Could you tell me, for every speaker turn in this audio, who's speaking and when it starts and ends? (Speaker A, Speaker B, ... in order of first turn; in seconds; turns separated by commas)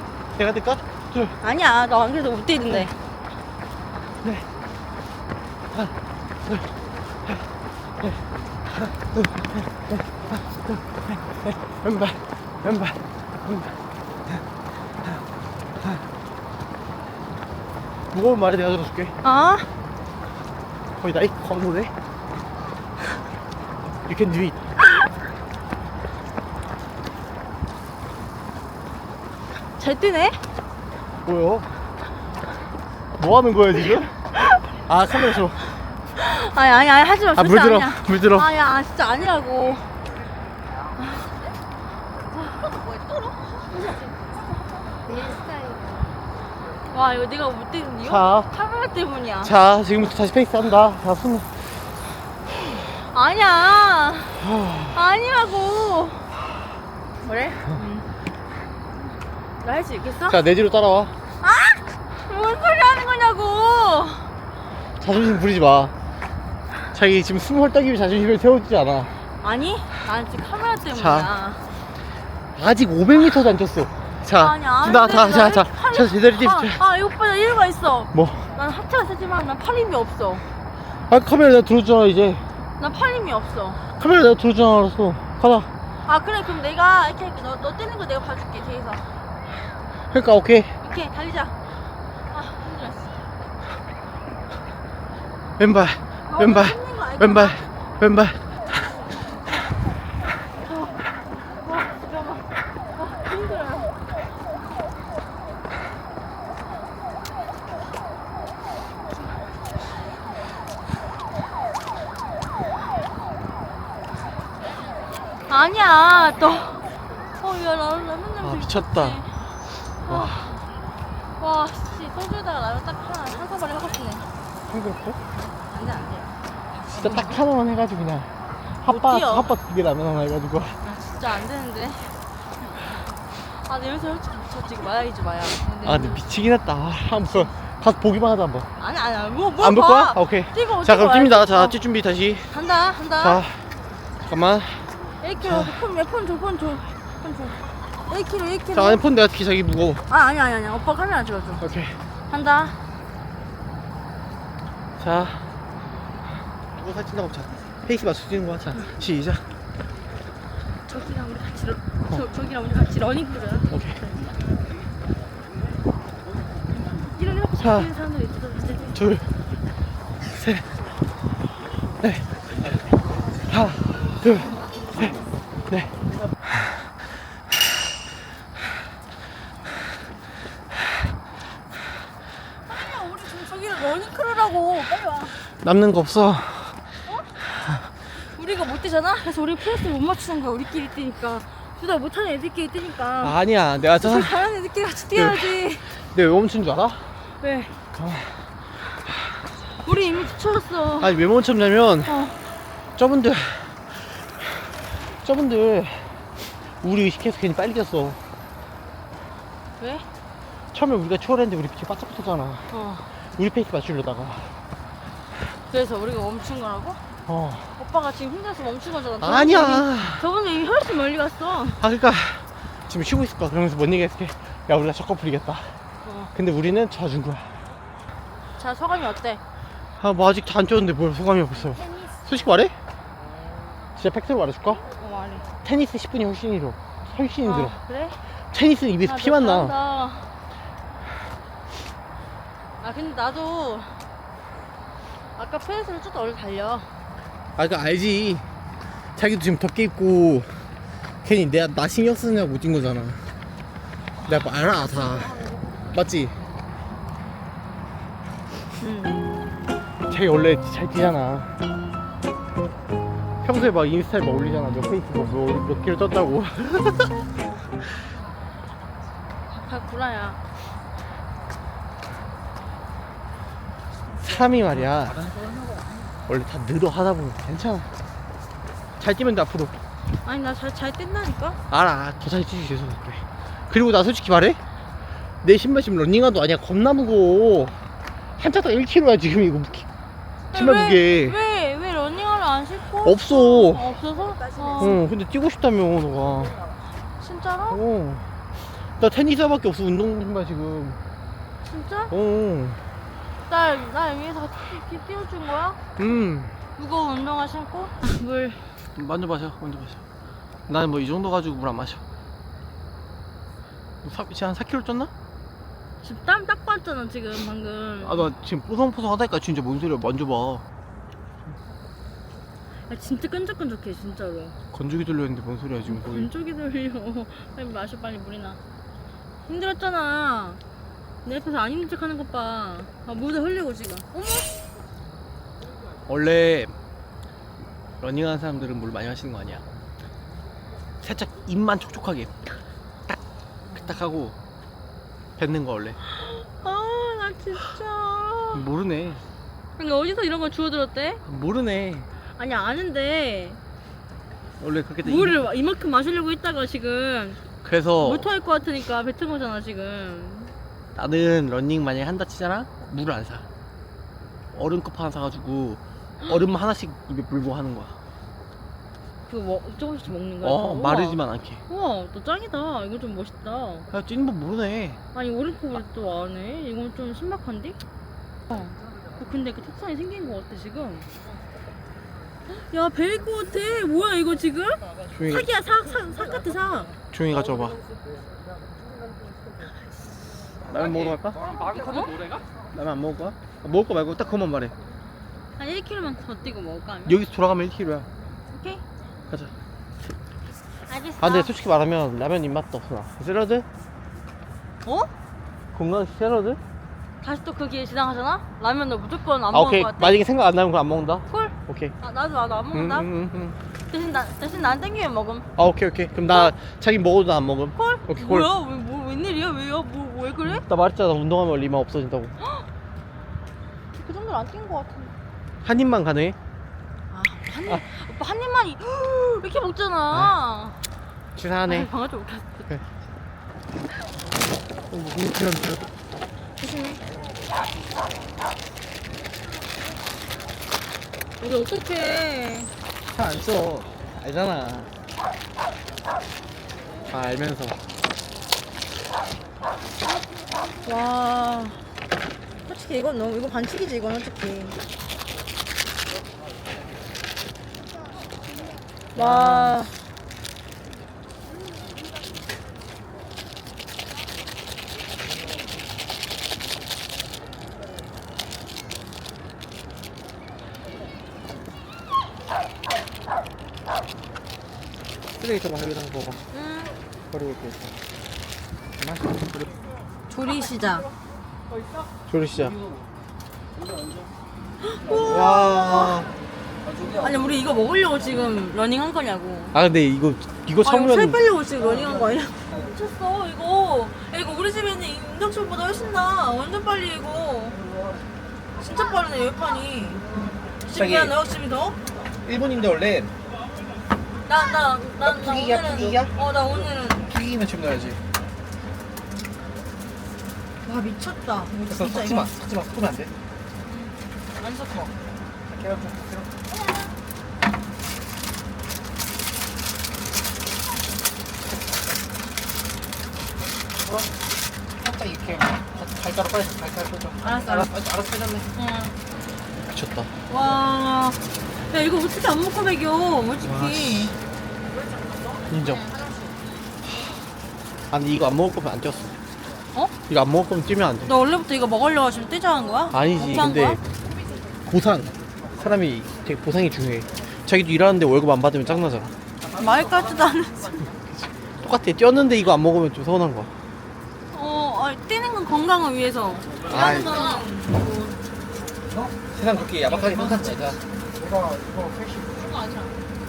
Speaker A: 0.3-1.4, Speaker B: 1.4-3.0, Speaker A: 5.7-6.7, Speaker A: 8.0-13.8, Speaker A: 18.1-19.1, Speaker B: 19.2-19.7, Speaker A: 21.0-21.9, Speaker A: 24.1-24.6, Speaker B: 29.8-30.4, Speaker A: 31.3-31.7, Speaker A: 33.2-34.1, Speaker B: 34.3-34.7, Speaker A: 34.9-35.6, Speaker B: 36.2-39.9, Speaker A: 37.4-38.5, Speaker B: 41.0-41.3, Speaker B: 42.3-43.9, Speaker B: 45.1-45.5, Speaker B: 46.9-49.5, Speaker A: 48.0-48.5, Speaker A: 49.4-51.6, Speaker B: 53.0-54.4, Speaker A: 54.4-55.0, Speaker B: 54.9-56.3, Speaker B: 57.2-58.1, Speaker B: 59.6-60.4, Speaker A: 60.3-61.1, Speaker B: 61.4-64.3, Speaker A: 65.0-65.9, Speaker A: 66.9-69.1, Speaker B: 69.4-71.7, Speaker A: 70.9-71.3, Speaker A: 72.6-76.8, Speaker B: 74.4-80.5, Speaker A: 78.1-78.5, Speaker A: 81.1-82.5, Speaker B: 82.8-83.8, Speaker A: 84.0-85.7, Speaker B: 86.1-89.1, Speaker A: 90.1-90.7, Speaker B: 90.8-91.5, Speaker B: 92.3-93.2, Speaker A: 95.6-98.4, Speaker B: 96.3-97.7, Speaker B: 100.7-101.0, Speaker B: 101.6-104.0, Speaker B: 115.5-116.8, Speaker B: 117.4-119.4, Speaker A: 118.4-119.2, Speaker B: 120.0-120.6, Speaker A: 120.1-120.5, Speaker B: 121.4-124.3, Speaker A: 124.7-125.2, Speaker B: 125.7-126.3, Speaker A: 126.9-128.3, Speaker B: 127.0-127.3, Speaker A: 128.8-130.8, Speaker B: 128.9-129.5, Speaker B: 130.8-132.2, Speaker B: 133.4-136.2, Speaker A: 135.8-138.7, Speaker B: 138.8-141.8, Speaker A: 139.6-142.5, Speaker B: 142.5-143.4, Speaker A: 143.2-143.7, Speaker A: 144.2-144.9, Speaker B: 145.2-149.0, Speaker A: 145.4-145.7, Speaker A: 148.7-150.0, Speaker B: 150.1-151.6, Speaker A: 151.6-152.0, Speaker B: 152.3-152.8, Speaker A: 155.0-155.5, Speaker A: 156.7-159.5, Speaker B: 160.9-163.7, Speaker A: 163.7-164.0, Speaker B: 167.1-169.0, Speaker A: 167.6-167.9, Speaker A: 168.9-169.3, Speaker A: 170.2-170.7, Speaker A: 172.0-172.4, Speaker A: 173.5-176.0, Speaker B: 182.5-185.4, Speaker A: 185.6-186.8, Speaker B: 187.1-187.3, Speaker B: 188.1-193.3, Speaker A: 193.2-194.3, Speaker B: 194.0-195.9, Speaker A: 195.1-197.2, Speaker B: 197.4-197.8, Speaker A: 197.9-198.5, Speaker B: 199.8-201.2, Speaker A: 201.0-202.2, Speaker B: 202.1-202.3, Speaker A: 203.0-208.2, Speaker B: 209.8-210.1, Speaker A: 210.7-212.7, Speaker B: 212.7-213.1, Speaker A: 213.2-214.6, Speaker B: 215.7-217.0, Speaker A: 217.3-217.7, Speaker B: 217.8-221.8, Speaker A: 219.2-220.2, Speaker A: 221.8-225.8, Speaker B: 226.0-226.3, Speaker A: 226.3-227.6, Speaker B: 228.6-229.4, Speaker A: 230.0-232.7, Speaker A: 234.0-234.8, Speaker B: 234.9-235.5, Speaker A: 235.6-237.8, Speaker B: 237.4-238.2, Speaker A: 238.5-239.8, Speaker B: 239.1-240.3, Speaker B: 242.8-244.0, Speaker B: 245.4-246.9, Speaker A: 247.6-248.5, Speaker A: 249.2-250.7, Speaker A: 251.2-253.2, Speaker A: 254.2-256.4, Speaker B: 258.8-259.3, Speaker A: 260.1-261.5, Speaker A: 263.4-267.2, Speaker B: 269.5-270.4, Speaker A: 274.2-275.3, Speaker A: 276.3-277.9, Speaker A: 279.0-279.8, Speaker B: 280.2-281.6, Speaker A: 281.7-284.6, Speaker A: 285.4-287.8, Speaker A: 288.4-289.9, Speaker A: 290.5-291.4, Speaker B: 290.5-295.0, Speaker A: 293.0-294.0, Speaker A: 294.8-296.6, Speaker B: 297.2-297.8, Speaker A: 297.7-298.3, Speaker A: 299.0-301.0, Speaker B: 301.7-302.1, Speaker A: 302.1-302.9, Speaker B: 303.5-305.8, Speaker A: 306.0-306.6, Speaker B: 306.8-308.7, Speaker A: 309.0-310.0, Speaker A: 310.7-312.0, Speaker A: 314.0-315.1, Speaker B: 316.0-318.3, Speaker A: 318.0-320.6, Speaker B: 322.9-324.6, Speaker A: 324.7-326.3, Speaker B: 325.9-328.6, Speaker B: 329.5-330.6, Speaker B: 331.2-334.5, Speaker A: 336.1-336.8, Speaker A: 338.0-339.7, Speaker A: 341.0-342.4, Speaker A: 343.7-344.4, Speaker A: 345.4-346.0, Speaker B: 346.1-348.7, Speaker A: 348.5-349.2, Speaker B: 349.8-351.2, Speaker A: 351.2-352.1, Speaker B: 352.4-353.6, Speaker A: 354.6-355.4, Speaker B: 355.0-357.4, Speaker A: 357.6-358.3, Speaker B: 358.0-360.5, Speaker A: 360.9-363.5, Speaker A: 364.5-368.0, Speaker B: 369.3-373.9, Speaker A: 370.4-371.6, Speaker A: 373.9-375.0, Speaker B: 375.1-377.8, Speaker B: 378.5-381.1, Speaker B: 382.5-387.0, Speaker A: 385.1-385.5, Speaker A: 387.1-387.8, Speaker A: 390.6-391.5, Speaker B: 391.6-392.4, Speaker A: 392.7-394.8, Speaker B: 395.6-397.2, Speaker A: 397.1-398.1, Speaker B: 398.5-398.8, Speaker B: 400.9-401.5, Speaker A: 401.2-403.7, Speaker B: 404.9-405.1, Speaker A: 405.7-406.6, Speaker B: 407.2-410.2, Speaker A: 409.5-411.9, Speaker B: 411.3-413.1, Speaker A: 412.7-413.6, Speaker B: 413.9-415.5, Speaker A: 415.6-418.5, Speaker B: 417.8-420.6, Speaker A: 420.4-422.3, Speaker B: 423.9-425.1, Speaker A: 425.6-426.4, Speaker B: 427.1-430.8, Speaker A: 431.4-431.9, Speaker B: 431.7-432.7, Speaker A: 434.9-435.9, Speaker B: 436.6-437.0, Speaker B: 441.4-442.7, Speaker A: 443.1-444.9, Speaker A: 447.1-447.8, Speaker B: 450.9-451.8, Speaker B: 452.6-454.8, Speaker A: 459.1-459.9, Speaker B: 459.1-459.9, Speaker A: 475.4-476.4, Speaker B: 476.5-477.0, Speaker A: 477.3-478.0, Speaker A: 479.0-479.7, Speaker B: 480.3-481.1, Speaker A: 482.3-482.8, Speaker B: 484.8-486.2, Speaker A: 485.1-486.3, Speaker B: 487.2-489.8, Speaker A: 489.7-491.4, Speaker B: 490.8-497.8, Speaker B: 498.8-500.3, Speaker B: 500.8-502.0, Speaker A: 500.9-501.4, Speaker A: 502.4-503.3, Speaker B: 504.5-507.2, Speaker A: 505.3-506.3, Speaker A: 507.2-508.2, Speaker B: 510.9-512.5, Speaker A: 511.9-513.3, Speaker B: 513.9-515.1, Speaker A: 515.7-516.5, Speaker A: 524.0-524.3, Speaker A: 525.0-528.7, Speaker B: 527.4-527.9, Speaker B: 528.8-529.1, Speaker A: 529.9-530.3, Speaker B: 530.5-534.4, Speaker A: 533.6-534.4, Speaker A: 535.7-536.1, Speaker A: 538.1-539.4, Speaker A: 540.3-541.3, Speaker B: 541.3-544.0, Speaker A: 543.1-544.0, Speaker A: 544.9-549.3, Speaker B: 549.7-551.1, Speaker A: 551.8-553.7, Speaker B: 554.5-558.0, Speaker A: 556.9-557.5, Speaker A: 559.4-561.0, Speaker A: 561.7-562.4